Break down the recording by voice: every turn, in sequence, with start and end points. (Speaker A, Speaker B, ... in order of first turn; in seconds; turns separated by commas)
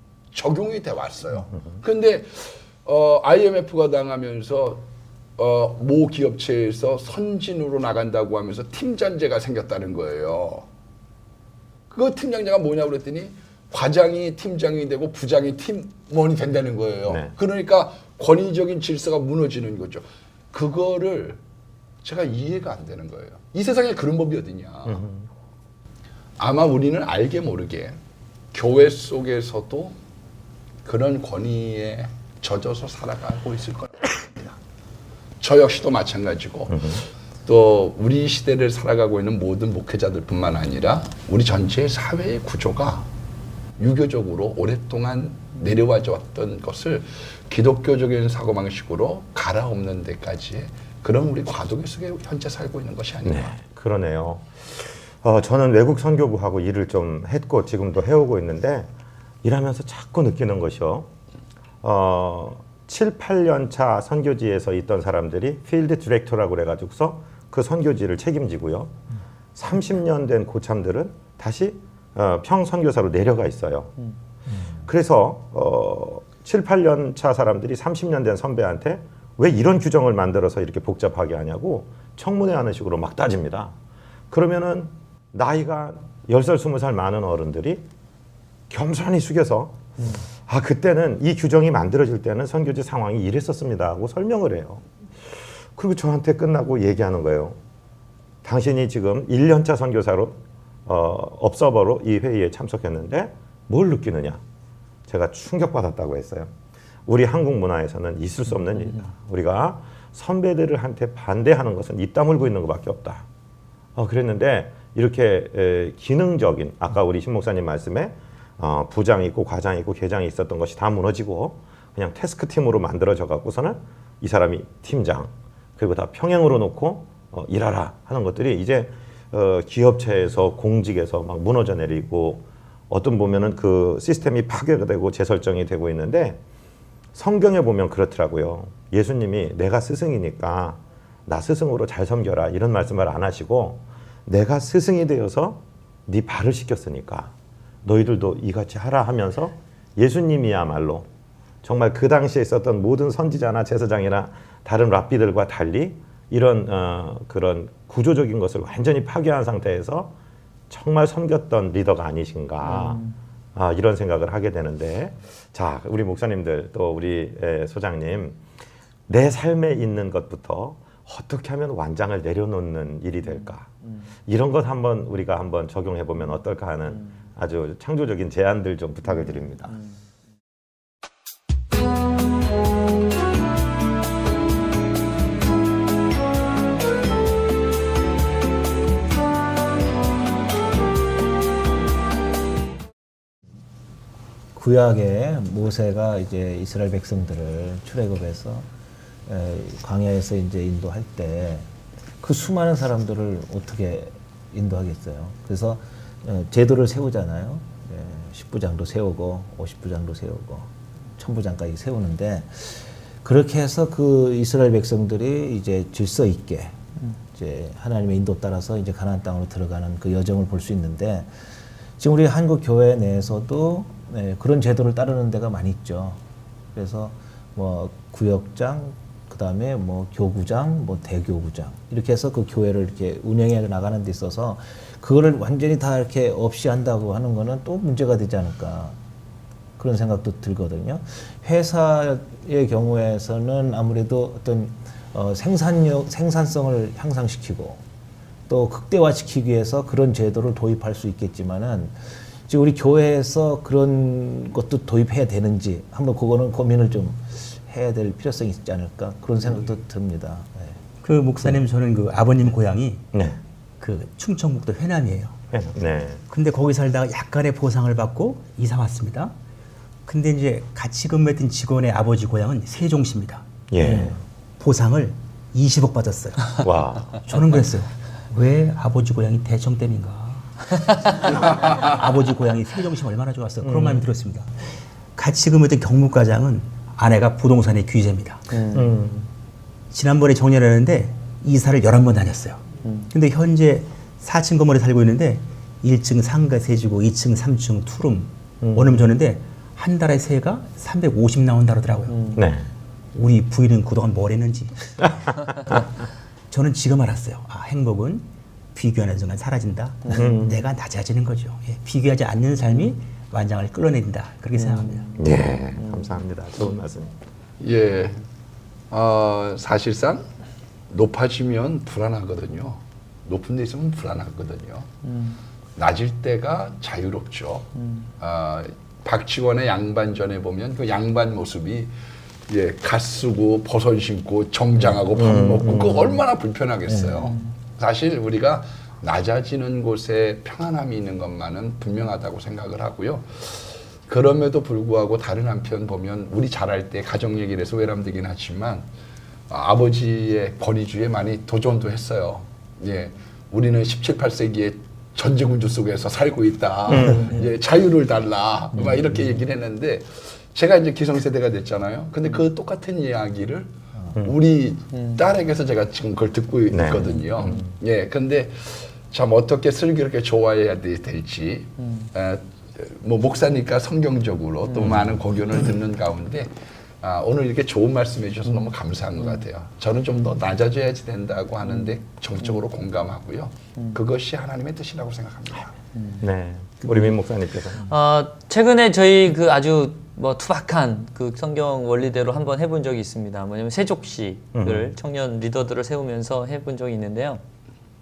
Speaker A: 0.3-10.7, Speaker A: 11.9-21.4, Speaker B: 17.1-17.3, Speaker A: 22.0-25.1, Speaker B: 24.8-25.3, Speaker A: 26.4-28.0, Speaker A: 28.5-30.0, Speaker A: 30.8-34.6, Speaker A: 35.4-43.1, Speaker B: 36.7-37.0, Speaker A: 43.8-53.5, Speaker B: 53.2-58.9, Speaker B: 59.4-61.1, Speaker B: 61.8-69.0, Speaker B: 69.5-74.0, Speaker B: 74.8-83.7, Speaker B: 84.3-87.8, Speaker B: 88.7-89.9, Speaker B: 90.5-97.6, Speaker B: 98.4-104.4, Speaker B: 105.1-106.5, Speaker B: 107.0-113.2, Speaker B: 114.0-136.4, Speaker B: 137.1-147.3, Speaker B: 147.8-151.1, Speaker B: 151.6-160.1, Speaker B: 160.7-163.0, Speaker C: 162.6-163.1, Speaker B: 163.5-168.4, Speaker B: 169.1-173.7, Speaker B: 174.3-179.8, Speaker D: 194.5-198.7, Speaker D: 199.2-201.7, Speaker D: 202.2-221.3, Speaker D: 222.0-226.2, Speaker D: 226.7-239.0, Speaker D: 239.8-247.8, Speaker D: 248.5-260.8, Speaker E: 261.0-263.0, Speaker B: 263.1-263.4, Speaker E: 263.8-265.4, Speaker B: 265.5-266.2, Speaker E: 266.3-269.3, Speaker E: 270.0-276.6, Speaker B: 273.7-274.1, Speaker B: 276.6-277.2, Speaker E: 277.2-288.6, Speaker B: 283.6-284.1, Speaker C: 288.5-288.9, Speaker B: 288.7-289.3, Speaker E: 289.9-302.3, Speaker C: 292.8-293.1, Speaker B: 298.6-298.9, Speaker C: 302.1-302.4, Speaker B: 302.3-302.7, Speaker E: 303.1-305.1, Speaker E: 306.5-315.1, Speaker B: 310.1-310.6, Speaker C: 314.6-315.1, Speaker B: 315.2-317.1, Speaker A: 317.6-318.2, Speaker A: 318.9-320.3, Speaker A: 320.9-324.9, Speaker C: 325.0-325.4, Speaker A: 325.8-331.9, Speaker A: 332.5-348.9, Speaker B: 334.8-336.2, Speaker D: 336.9-337.2, Speaker A: 349.5-385.7, Speaker B: 356.9-357.4, Speaker C: 364.9-365.2, Speaker B: 366.7-367.6, Speaker C: 371.8-372.1, Speaker B: 374.8-375.2, Speaker C: 385.9-386.2, Speaker B: 386.2-387.9, Speaker C: 387.8-397.4, Speaker B: 394.5-394.9